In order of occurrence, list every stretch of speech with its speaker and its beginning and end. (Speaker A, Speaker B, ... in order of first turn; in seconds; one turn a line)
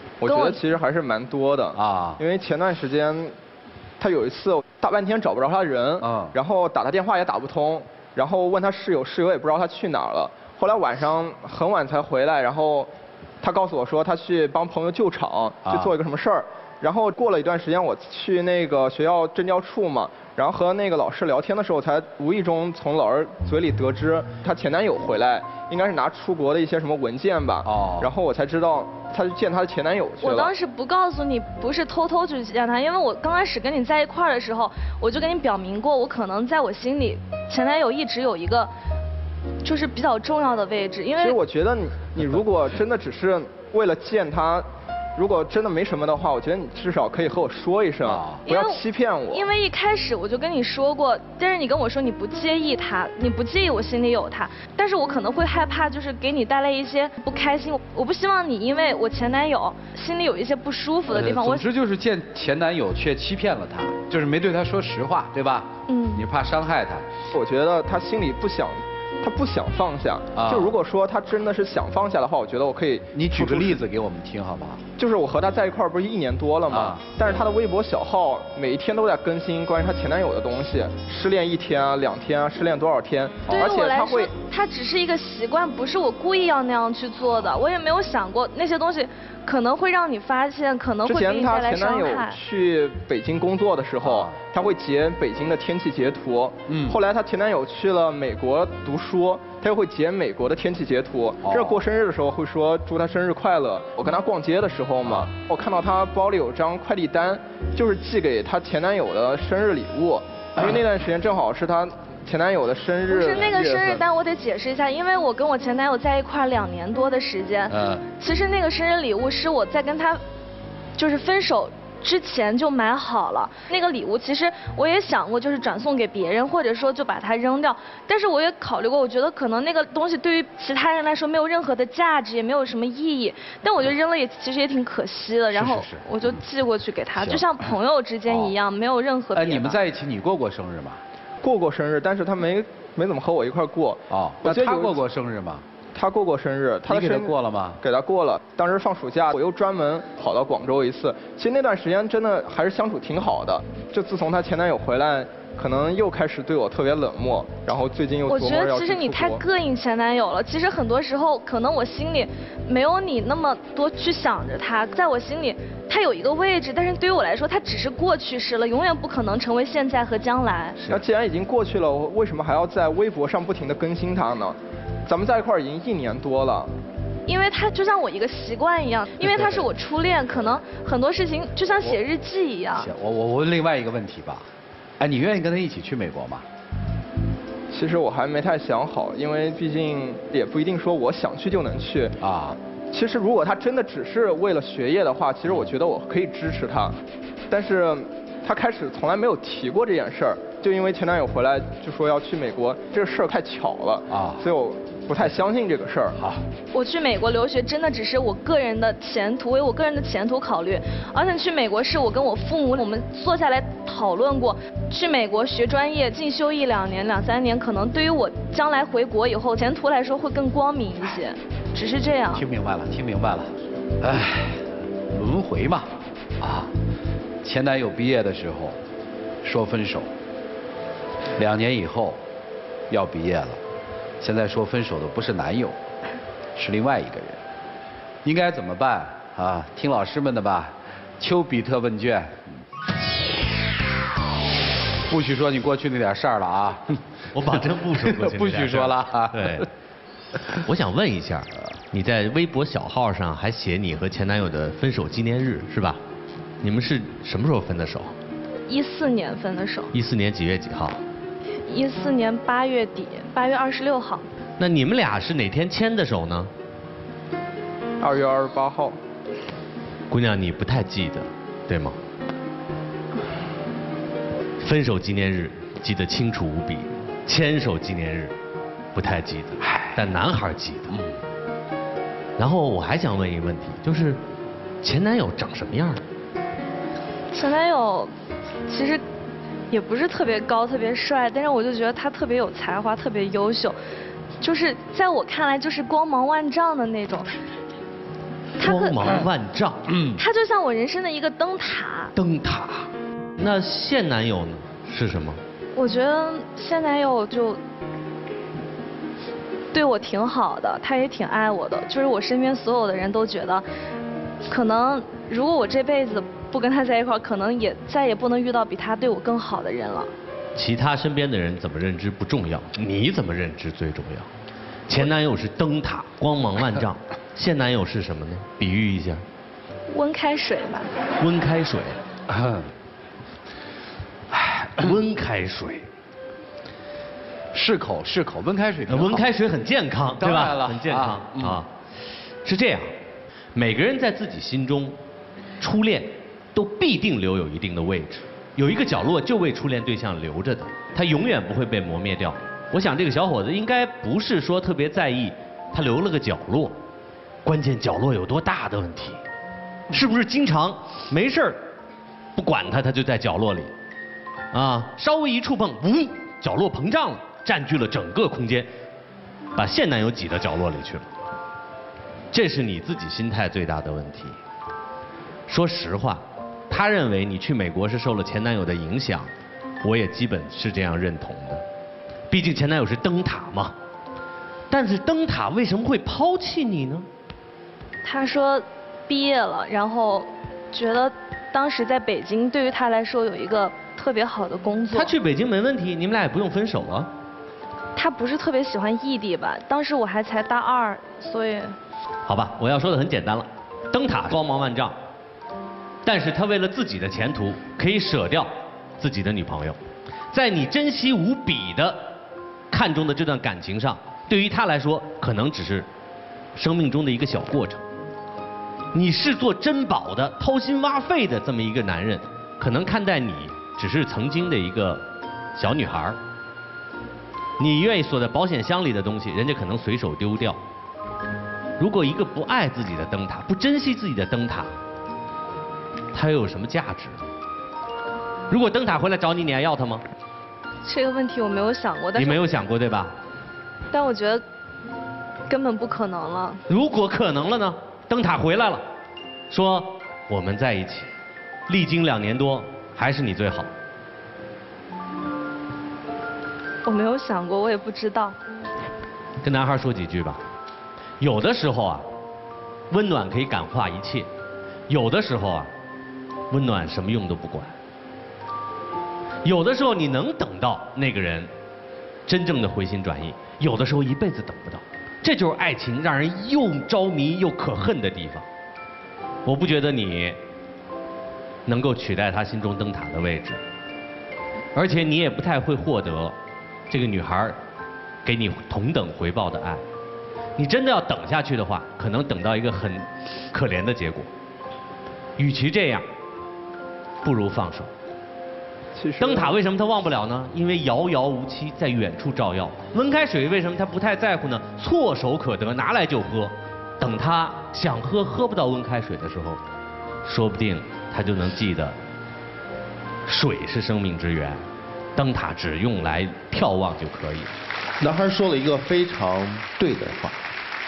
Speaker A: 0.2-3.4
Speaker B: 0.2-0.6
Speaker C: 1.8-2.2
Speaker A: 4.0-30.5
Speaker C: 6.0-6.3
Speaker C: 15.7-15.9
Speaker C: 27.6-28.1
Speaker B: 30.2-38.7
Speaker B: 39.6-41.4
Speaker A: 41.2-49.5
Speaker C: 48.0-48.4
Speaker B: 48.5-61.7
Speaker C: 61.1-67.1
Speaker B: 65.9-66.2
Speaker A: 67.3-73.8
Speaker C: 70.3-70.8
Speaker C: 73.1-74.8
Speaker A: 75.0-84.3
Speaker C: 76.7-77.0
Speaker B: 83.5-92.4
Speaker A: 91.0-114.0
Speaker C: 94.0-94.3
Speaker C: 96.7-97.0
Speaker C: 101.4-101.8
Speaker B: 113.1-120.2
Speaker C: 117.7-118.0
Speaker B: 121.0-139.8
Speaker C: 135.5-136.4
Speaker C: 137.2-137.4
Speaker C: 138.3-138.5
Speaker C: 139.3-141.0
Speaker A: 141.4-145.0
Speaker C: 144.1-145.7
Speaker A: 145.9-159.4
Speaker C: 146.9-147.8
Speaker B: 158.3-170.8
Speaker A: 170.9-176.7
Speaker B: 177.3-182.9
Speaker C: 179.2-179.7
Speaker C: 182.8-184.5
Speaker C: 185.0-186.4
Speaker A: 187.7-192.2
Speaker C: 192.2-192.6
Speaker A: 192.9-197.0
Speaker A: 197.5-206.2
Speaker C: 204.1-204.4
Speaker C: 206.2-206.4
Speaker B: 206.7-222.4
Speaker C: 222.3-226.7
Speaker C: 227.4-228.8
Speaker C: 229.4-230.1
Speaker C: 231.4-232.2
Speaker C: 232.9-233.6
Speaker C: 234.2-235.8
Speaker C: 236.6-237.4
Speaker C: 238.2-242.5
Speaker C: 245.1-249.7
Speaker D: 247.3-249.7
Speaker D: 250.6-256.0
Speaker D: 256.6-258.1
Speaker B: 258.7-259.9
Speaker D: 259.9-261.0
Speaker B: 261.7-264.3
Speaker D: 264.6-266.5
Speaker A: 268.0-269.0
Speaker D: 270.1-272.0
Speaker D: 274.6-278.4
Speaker D: 278.9-281.1
Speaker C: 279.6-280.0
Speaker D: 282.4-284.2
Speaker D: 284.8-286.0
Speaker B: 287.3-288.1
Speaker B: 288.7-289.0
Speaker B: 289.7-293.8
Speaker B: 294.4-297.3
Speaker B: 298.6-299.3
Speaker D: 298.6-299.9
Speaker C: 299.9-300.2
Speaker B: 300.2-302.1
Speaker D: 302.2-305.4
Speaker B: 305.8-307.6
Speaker B: 309.7-313.6
Speaker B: 314.5-320.1
Speaker D: 320.6-324.3
Speaker D: 324.9-329.2
Speaker B: 329.9-330.9
Speaker D: 331.2-332.0
Speaker C: 332.3-332.7
Speaker C: 334.3-334.8
Speaker D: 334.8-335.9
Speaker C: 337.5-339.2
Speaker D: 338.9-341.7
Speaker C: 340.2-341.6
Speaker D: 342.4-342.9
Speaker D: 343.5-345.0
Speaker D: 345.6-356.8
Speaker D: 357.4-359.2
Speaker D: 359.9-361.6
Speaker D: 362.4-363.7
Speaker D: 364.5-368.7
Speaker D: 369.6-371.1
Speaker D: 372.3-374.4
Speaker D: 375.5-379.3
Speaker D: 379.8-381.6
Speaker D: 382.3-383.8
Speaker D: 384.7-387.1
Speaker B: 388.0-395.1
Speaker D: 394.9-397.1
Speaker B: 398.0-401.8
Speaker D: 402.3-405.0
Speaker D: 406.0-409.8
Speaker D: 410.3-412.1
Speaker D: 412.7-415.9
Speaker D: 416.6-417.9
Speaker D: 418.9-426.2
Speaker D: 427.6-430.6
Speaker D: 431.8-434.7
Speaker D: 436.1-437.2
Speaker D: 438.5-440.0
Speaker B: 440.8-442.5
Speaker D: 442.1-443.1
Speaker B: 443.9-444.4
Speaker B: 445.5-446.6
Speaker D: 446.7-448.9
Speaker D: 449.5-451.1
Speaker D: 451.7-453.7
Speaker B: 456.9-458.4
Speaker D: 459.4-460.4
Speaker D: 461.2-462.1
Speaker D: 462.9-464.3
Speaker D: 464.9-465.7
Speaker D: 466.5-467.8
Speaker D: 469.4-471.5
Speaker D: 472.3-478.5
Speaker D: 479.4-480.4
Speaker D: 481.7-483.6
Speaker D: 484.7-486.4
Speaker D: 486.9-487.6
Speaker D: 488.2-489.9
Speaker D: 490.6-494.3
Speaker D: 495.4-496.1
Speaker D: 497.2-497.9
Speaker A: 498.9-499.6
Speaker D: 499.2-509.6
Speaker D: 510.2-512.0
Speaker D: 513.3-514.6
Speaker D: 515.2-517.5
Speaker E: 518.0-520.4